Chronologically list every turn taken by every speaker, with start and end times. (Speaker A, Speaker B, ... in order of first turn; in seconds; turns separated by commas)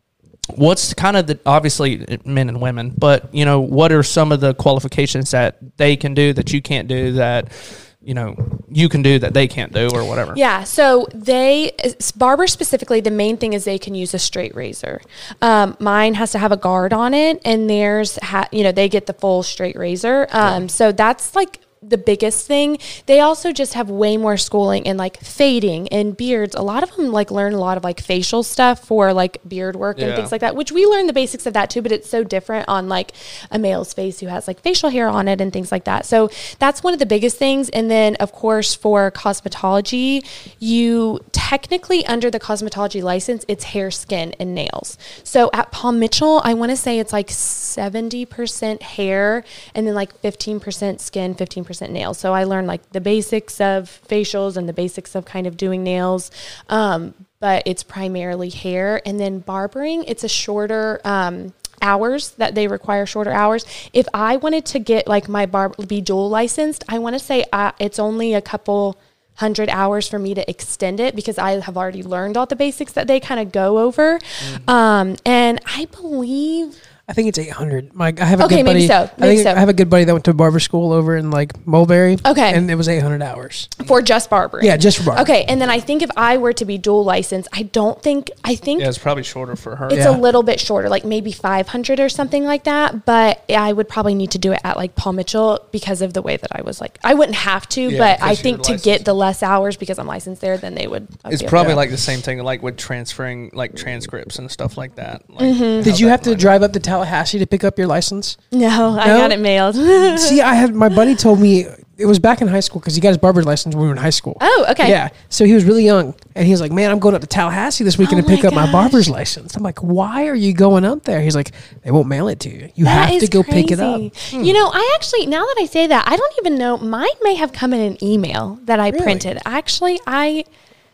Speaker A: 0.5-10.4, Speaker B: 10.3-76.7, Speaker A: 29.9-30.3, Speaker C: 77.1-83.7, Speaker B: 78.4-79.6, Speaker B: 82.2-82.6, Speaker B: 83.8-88.9, Speaker C: 84.6-85.3, Speaker A: 88.8-90.2, Speaker B: 89.9-101.8, Speaker C: 89.9-90.2, Speaker A: 97.9-99.0, Speaker A: 101.3-106.5, Speaker B: 105.4-105.9, Speaker C: 105.8-108.4, Speaker B: 108.5-110.4, Speaker C: 109.0-109.4, Speaker C: 110.1-124.1, Speaker B: 114.4-115.0, Speaker B: 118.0-119.0, Speaker B: 122.8-130.4, Speaker C: 128.9-129.3